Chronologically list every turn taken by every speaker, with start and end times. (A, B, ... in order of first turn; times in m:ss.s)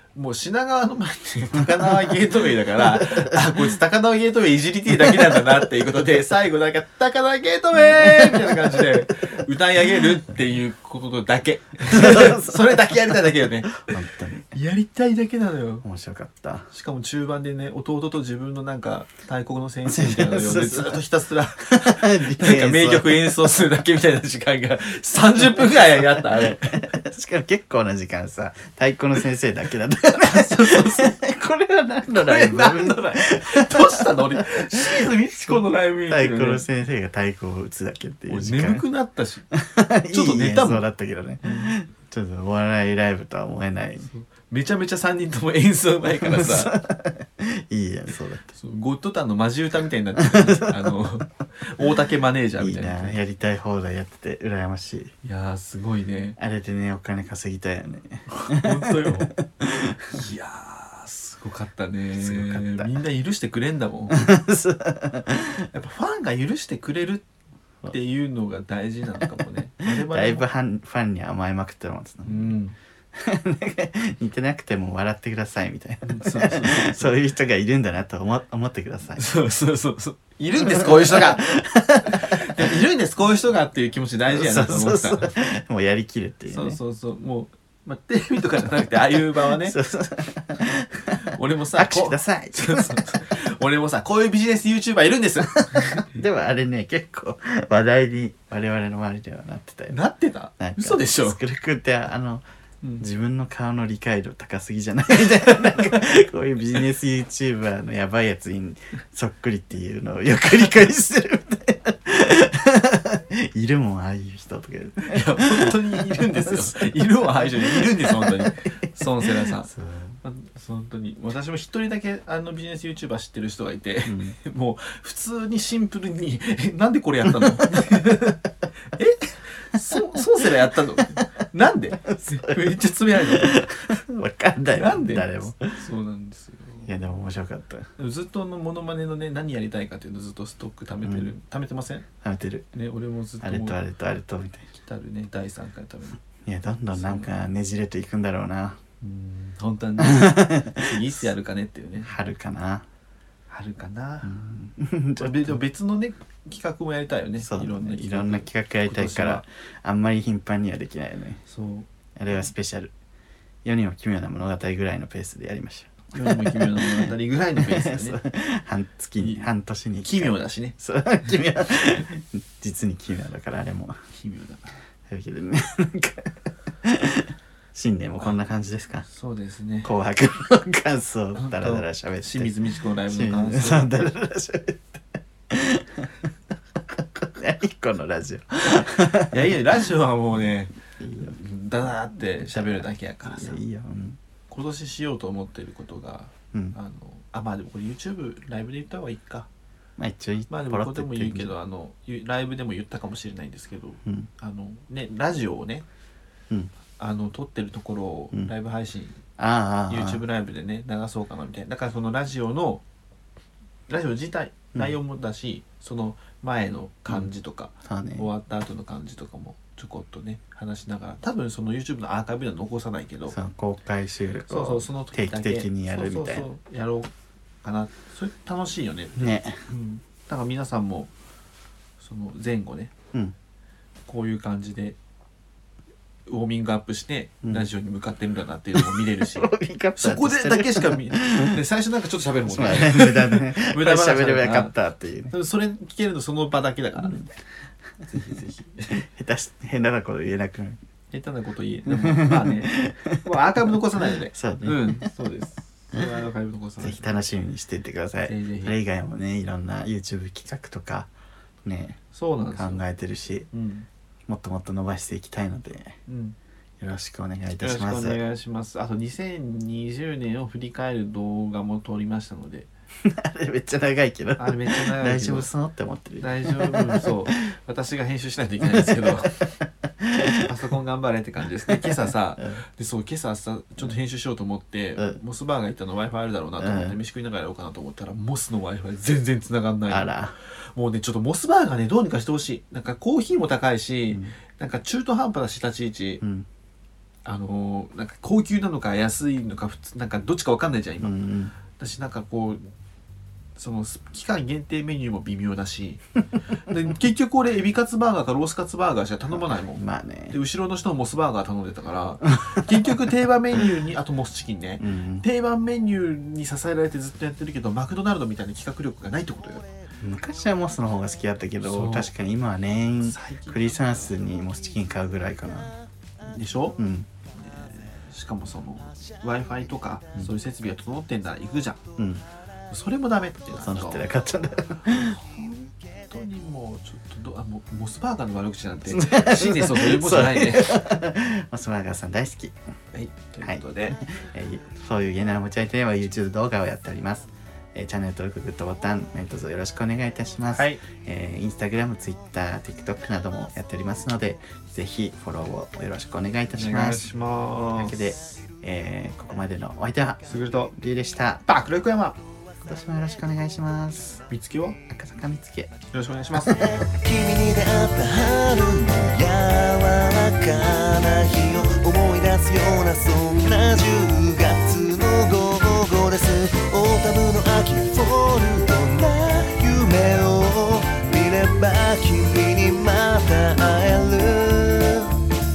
0:00.2-0:13.9 A
0:03.0-0:03.6 B
0:07.9-0:08.4 B
0:11.9-0:13.1 B
0:13.8-0:14.5 B
0:14.5-0:15.8 A
0:15.8-0:16.7 B
0:16.7-0:27.0 A
0:19.9-0:21.0 B
0:21.7-0:23.4 B
0:26.3-0:38.8 B
0:30.2-0:31.2 A
0:32.1-0:36.6 A
0:38.3-0:39.5 A
0:39.5-0:44.1 B
0:40.1-0:40.9 A
0:41.4-0:41.8 A
0:44.0-0:46.7 A
0:46.2-0:48.5 B
0:48.6-0:53.2 A
0:50.2-0:51.0 B
0:52.6-0:55.1 B
0:55.2-0:56.4 A
0:56.4-1:00.2 B
0:58.3-0:59.3 A
1:00.1-1:04.3 A
1:02.2-1:02.9 B
1:04.1-1:05.7 B
1:05.7-1:07.3 A
1:07.9-1:10.4 A
1:09.4-1:12.6 B
1:12.3-1:12.8 A
1:13.1-1:19.2 B
1:16.0-1:17.2 A
1:19.2-1:21.5 A
1:20.6-1:22.8 B
1:22.1-1:25.3 A
1:24.3-1:26.8 B
1:26.5-1:29.8 A
1:29.4-1:33.2 B
1:31.3-1:36.1 A
1:35.6-1:40.0 B
1:39.9-1:41.4 A
1:40.6-1:42.4 B
1:43.0-2:00.2 B
1:55.0-1:59.7 A
2:00.2-2:08.4 A
2:04.1-2:04.4 B
2:07.4-2:08.3 B
2:08.9-2:14.0 A
2:12.1-2:15.8 B
2:14.7-2:16.9 A
2:16.8-2:17.9 B
2:18.0-2:22.1 A
2:21.0-2:21.3 B
2:22.2-2:22.7 B
2:22.7-2:23.8 A
2:23.4-2:24.7 B
2:24.8-2:26.2 A
2:26.4-2:28.8 B
2:26.9-2:27.3 A
2:29.0-2:32.1 A
2:30.0-2:31.0 B
2:32.0-2:32.8 B
2:33.5-2:34.4 A
2:34.2-2:35.6 B
2:35.2-2:39.4 A
2:37.4-2:41.4 B
2:41.5-2:41.9 A
2:42.2-2:42.9 B
2:43.6-2:54.0 B
2:46.1-2:48.2 A
2:49.2-2:49.5 A
2:50.0-2:50.8 A
2:54.1-2:54.8 A
2:55.1-2:59.1 B
2:59.1-2:59.9 A
2:59.8-3:02.5 B
3:01.4-3:04.1 A
3:03.1-3:06.1 B
3:06.9-3:09.5 B
3:09.3-3:13.6 A
3:11.0-3:11.4 B
3:12.4-3:14.2 B
3:14.5-3:19.5 A
3:20.0-3:21.5 B
3:20.5-3:25.9 A
3:27.0-3:29.2 A
3:29.4-3:30.2 B
3:29.9-3:32.8 A
3:33.9-3:43.4 A
3:37.8-3:38.3 B
3:43.3-3:46.5 B
3:44.5-3:47.1 A
3:47.6-3:51.1 A
3:49.2-3:49.6 B
3:52.0-3:52.9 A
3:54.1-3:55.0 A
3:56.3-4:04.8 A
3:58.8-4:01.6 B
4:02.4-4:05.3 B
4:05.3-4:07.3 A
4:08.1-4:09.0 A
4:08.9-4:10.8 B
4:11.1-4:17.1 A
4:11.9-4:13.2 B
4:14.0-4:15.1 B
4:16.8-4:21.1 B
4:18.3-4:18.8 A
4:21.6-4:22.0 B
4:22.1-4:22.8 A
4:22.5-4:23.5 B
4:23.5-4:23.9 A
4:24.3-4:26.0 B
4:26.1-4:26.4 A
4:26.8-4:28.2 B
4:27.6-4:32.7 A
4:33.0-4:37.4 B
4:34.4-4:35.5 A
4:36.2-4:39.4 A
4:38.6-4:39.5 B
4:40.0-4:40.5 B
4:40.4-4:50.1 A
4:41.7-4:42.6 B
4:46.6-4:47.0 B
4:49.9-4:50.4 B
4:50.7-4:56.2 A
4:57.2-5:01.2 A
5:01.0-5:01.5 B
5:01.8-5:02.6 A
5:03.6-5:06.0 A
5:06.6-5:19.7 A
5:09.7-5:10.4 B
5:14.8-5:15.2 B
5:20.0-5:25.7 B
5:21.6-5:22.1 A
5:23.0-5:24.2 A
5:26.3-5:26.8 A
5:26.8-5:27.1 B
5:27.3-5:31.8 A
5:32.0-5:32.2 B
5:32.7-5:34.1 A
5:33.5-5:35.2 B
5:35.0-5:40.8 A
5:38.9-5:42.6 B
5:42.9-5:44.0 A
5:43.4-5:57.1 B
5:50.5-5:50.8 A
5:56.6-5:58.0 A
5:57.7-6:01.4 B
6:00.3-6:00.7 A
6:01.5-6:02.2 A
6:02.6-6:04.2 B
6:04.3-6:04.8 A
6:04.9-6:05.7 B
6:05.9-6:06.6 A
6:06.5-6:06.8 B
6:06.6-6:25.2 C